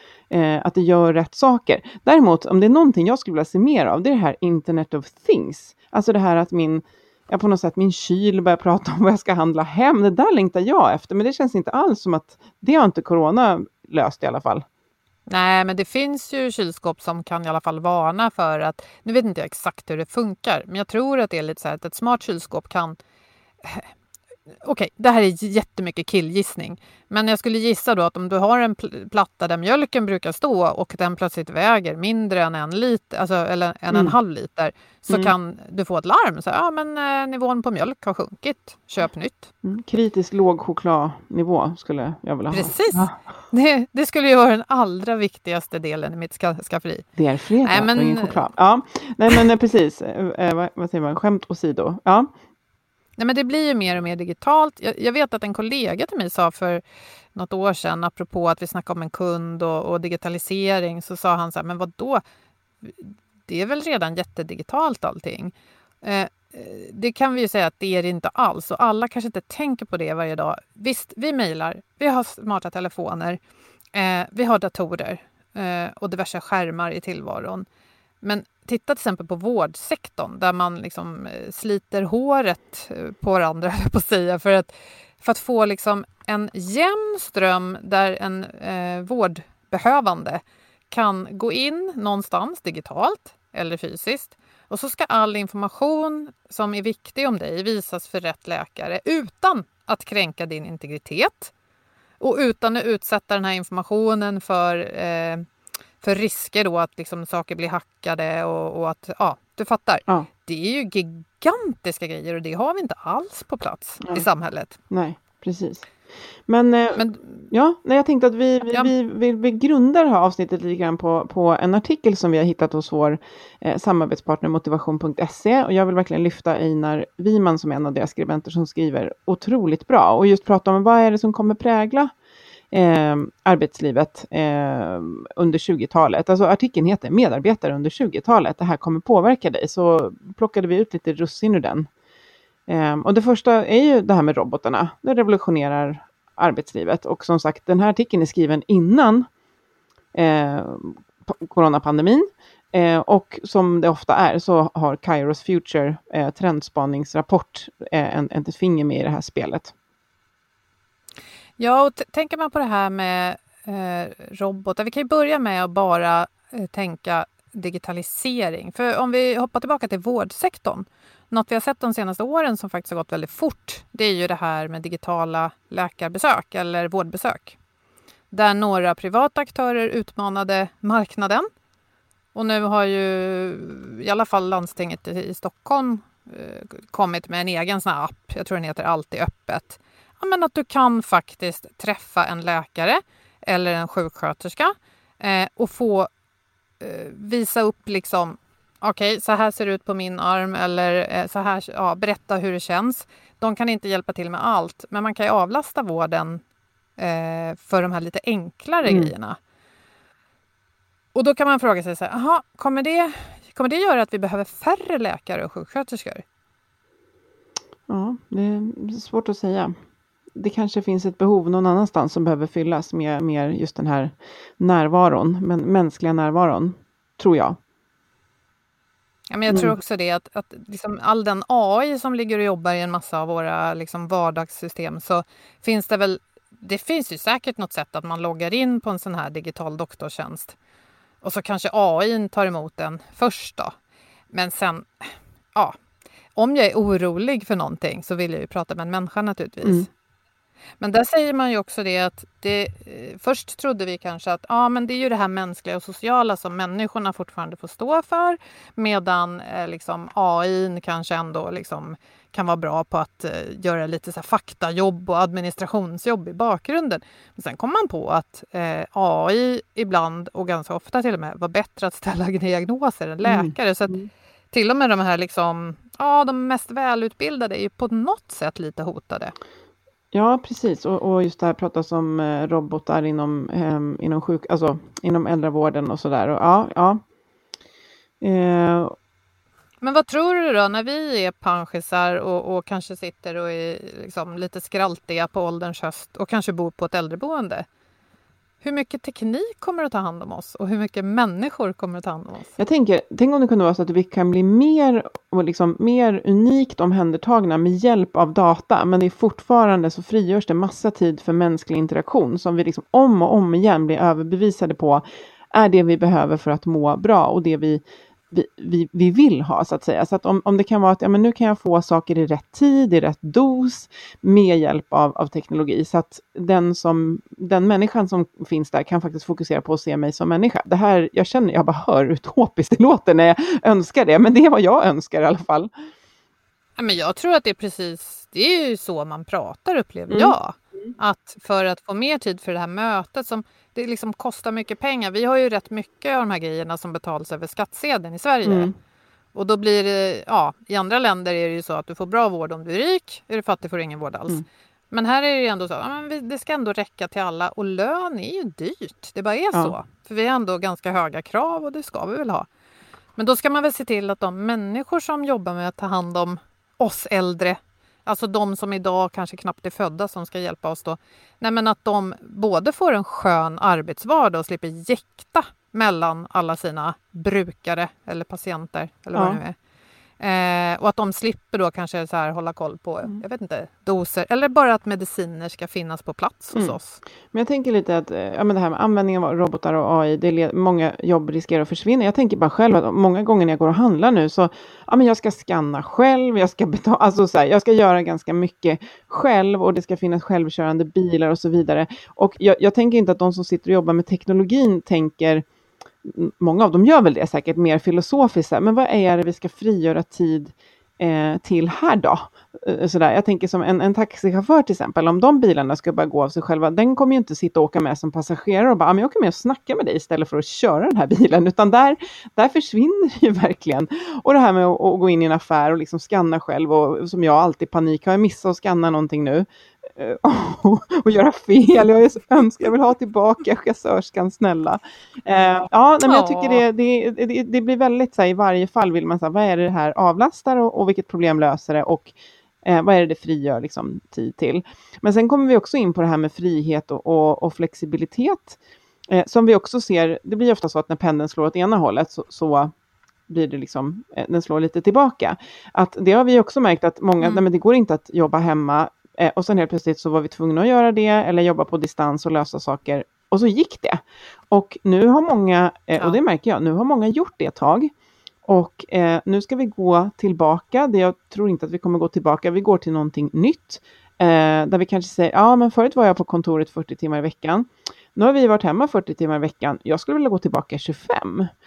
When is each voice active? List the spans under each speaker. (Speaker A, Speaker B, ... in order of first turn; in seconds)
Speaker A: 0.3-14.7, 35.1-35.3, 39.6-43.2, 47.2-52.3, 114.9-115.9, 116.5-132.1, 132.7-141.9, 142.7-149.3, 150.2-159.7, 208.9-209.1, 217.9-219.8, 220.3-227.6, 229.5-229.8, 273.2-274.1, 280.1-287.0, 288.2-288.9, 302.6-335.7, 340.1-340.4, 348.4-348.8, 379.1-379.4, 387.3-405.4, 406.0-442.1, 442.6-448.6, 449.1-452.7, 453.3-467.9, 468.5-481.5
Speaker B: 15.3-23.0, 23.6-23.9, 24.6-39.5, 42.5-47.0, 47.6-48.4, 53.2-56.8, 57.4-62.2, 62.8-73.4, 73.9-77.7, 78.2-101.5, 102.2-105.5, 106.0-114.8, 117.0-117.4, 161.6-177.6, 178.3-181.5, 182.3-196.1, 196.8-206.4, 207.0-209.4, 211.1-216.2, 229.3-240.6, 241.2-243.7, 244.3-245.8, 246.4-249.9, 250.8-274.0, 274.5-279.4, 289.8-297.7, 298.6-302.6, 336.8-348.7, 349.4-362.5, 363.2-379.6, 380.2-387.0, 436.0-436.6